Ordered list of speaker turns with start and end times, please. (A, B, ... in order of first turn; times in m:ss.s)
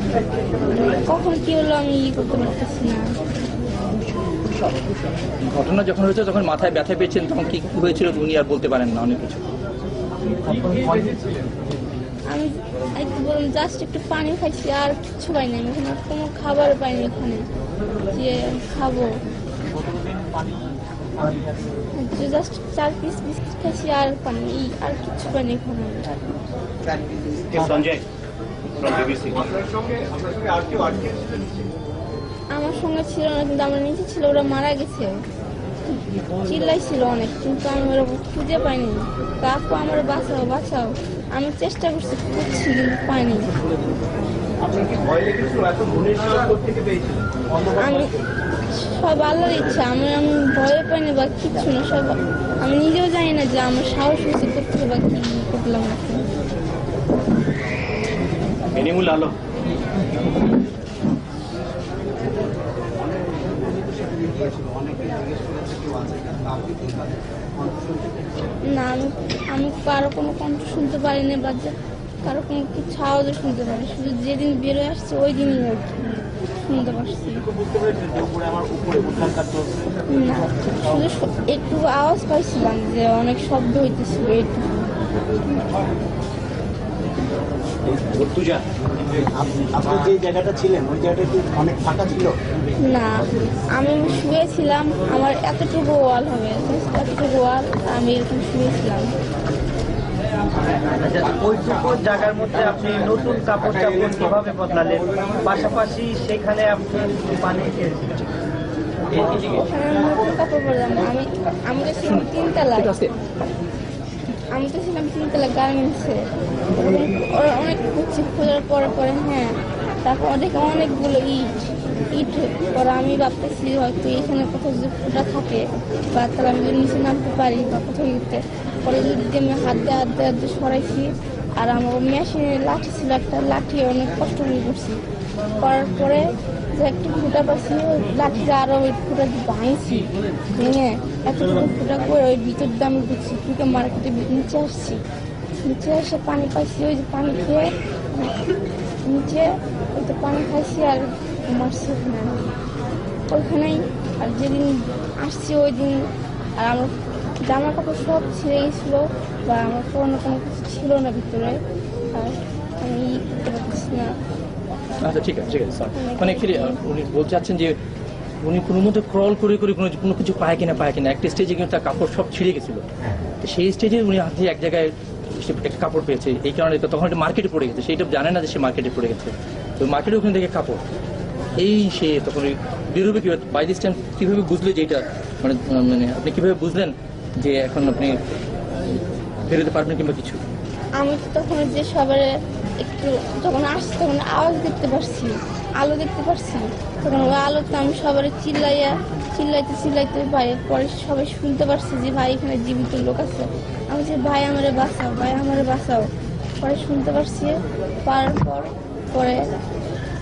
0:00.6-0:03.1 A
0:05.4-0:09.4 B
0:10.6-0:11.2 C
0:12.3-0:17.5 A
0:18.1-0:19.2 A
0:22.0-0:26.2 A
0:27.5-0:28.0 D
0:28.8-0:29.4 D
0:29.4-0:31.6 E
0:32.5-0:35.2 A
0:36.1-0:43.6 A
0:44.6-0:47.2 E
0:47.7-0:48.1 A
0:48.7-0:56.2 A
0:58.7-0:59.3 D
1:03.0-1:08.6 C
1:08.7-1:17.4 A
1:17.7-1:19.6 D
1:20.1-1:24.7 A
1:28.0-1:28.6 D
1:29.2-1:32.3 C
1:32.8-1:39.1 A
1:40.9-1:48.2 E
1:49.2-1:53.0 A
1:51.9-1:53.1 B
1:54.5-1:56.2 A
1:56.7-2:05.6 A
2:06.1-2:15.0 A
2:15.6-2:25.0 A
2:25.6-2:28.4 A
2:29.0-2:32.5 A
2:33.3-2:41.6 A
2:42.1-2:44.1 A
2:45.0-2:47.8 B
2:45.9-2:46.8 A
2:48.4-2:52.8 B
2:53.4-3:00.8 B
3:01.6-3:08.2 B
3:09.4-3:10.4 B
3:11.0-3:26.1 A
3:26.6-3:29.5 A